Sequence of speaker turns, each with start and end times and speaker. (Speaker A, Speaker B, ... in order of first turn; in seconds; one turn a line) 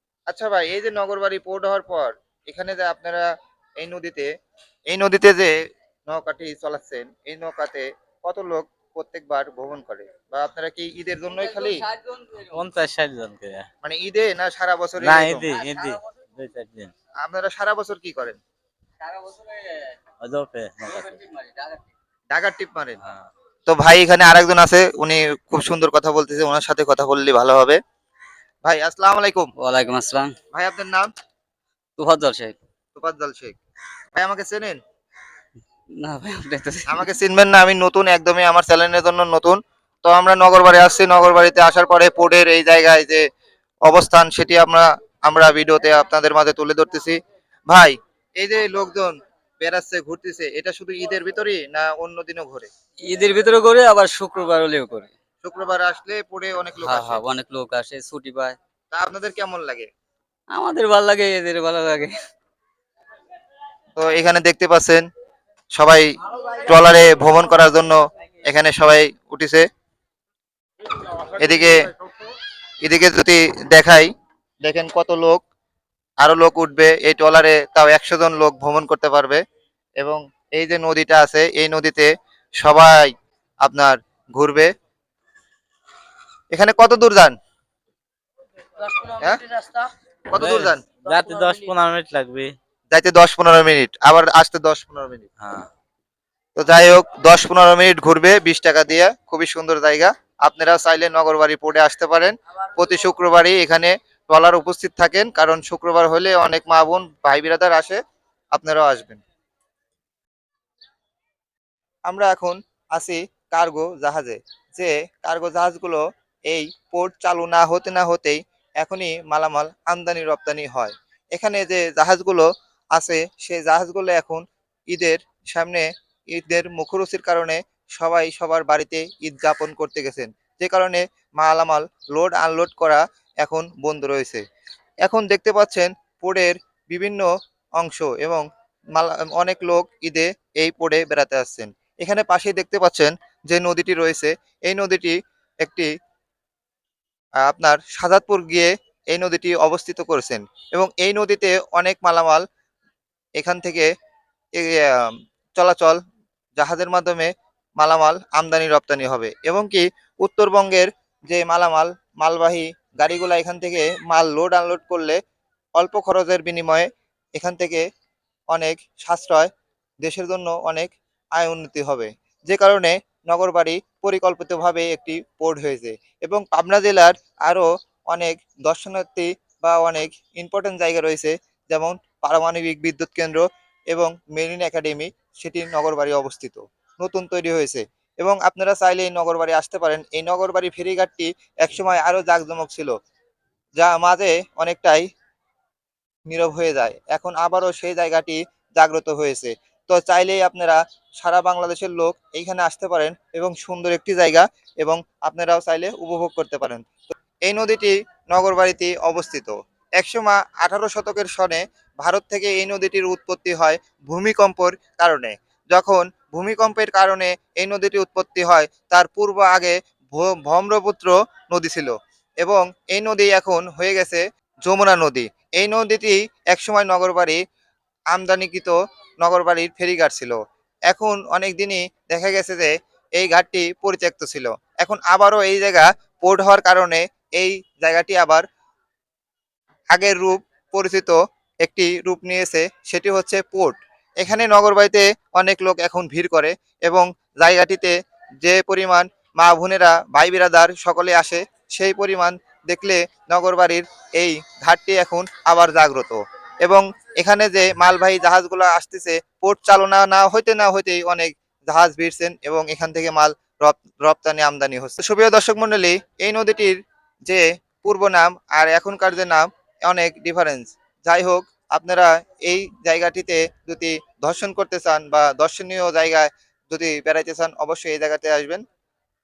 Speaker A: 0.3-3.2
Speaker A: 3.8-4.3
Speaker A: 4.9-5.5
Speaker A: 6.1-11.8
Speaker B: 12.4-13.7
Speaker A: 13.8-15.5
Speaker B: 15.0-16.9
Speaker A: 17.2-18.4
Speaker B: 20.2-21.2
Speaker A: 22.3-23.0
Speaker B: 23.0-23.3
Speaker A: 23.6-27.8
Speaker A: 28.6-29.5
Speaker C: 29.6-30.3
Speaker A: 30.5-31.1
Speaker C: 32.0-32.5
Speaker A: 32.9-33.6
Speaker A: 34.1-34.8
Speaker C: 36.0-37.1
Speaker A: 36.9-43.2
Speaker A: 43.9-52.7
Speaker C: 53.0-55.1
Speaker A: 55.4-57.2
Speaker C: 56.8-58.6
Speaker A: 58.9-59.9
Speaker C: 60.5-62.1
Speaker A: 63.9-65.0
Speaker A: 65.8-69.6
Speaker A: 71.3-71.9
Speaker A: 72.8-74.1
Speaker A: 74.6-75.4
Speaker A: 76.2-79.4
Speaker A: 80.0-82.1
Speaker A: 82.6-83.1
Speaker A: 83.6-84.7
Speaker A: 86.5-87.3
Speaker A: 89.2-89.6
Speaker A: 90.3-90.8
Speaker B: 90.4-92.5
Speaker A: 92.9-95.3
Speaker B: 95.4-95.7
Speaker A: 96.5-108.0
Speaker A: 108.5-109.2
Speaker A: 112.1-134.4
Speaker A: 135.0-138.4
Speaker A: 138.9-145.9
Speaker A: 147.4-152.4
Speaker A: 153.4-153.9
Speaker A: 154.6-156.0
Speaker A: 156.6-165.2
Speaker A: 165.8-167.8
Speaker A: 168.5-169.5
Speaker A: 170.0-192.9
Speaker A: 193.8-195.1
Speaker A: 196.3-227.4
Speaker A: 228.1-238.4
Speaker A: 239.9-278.6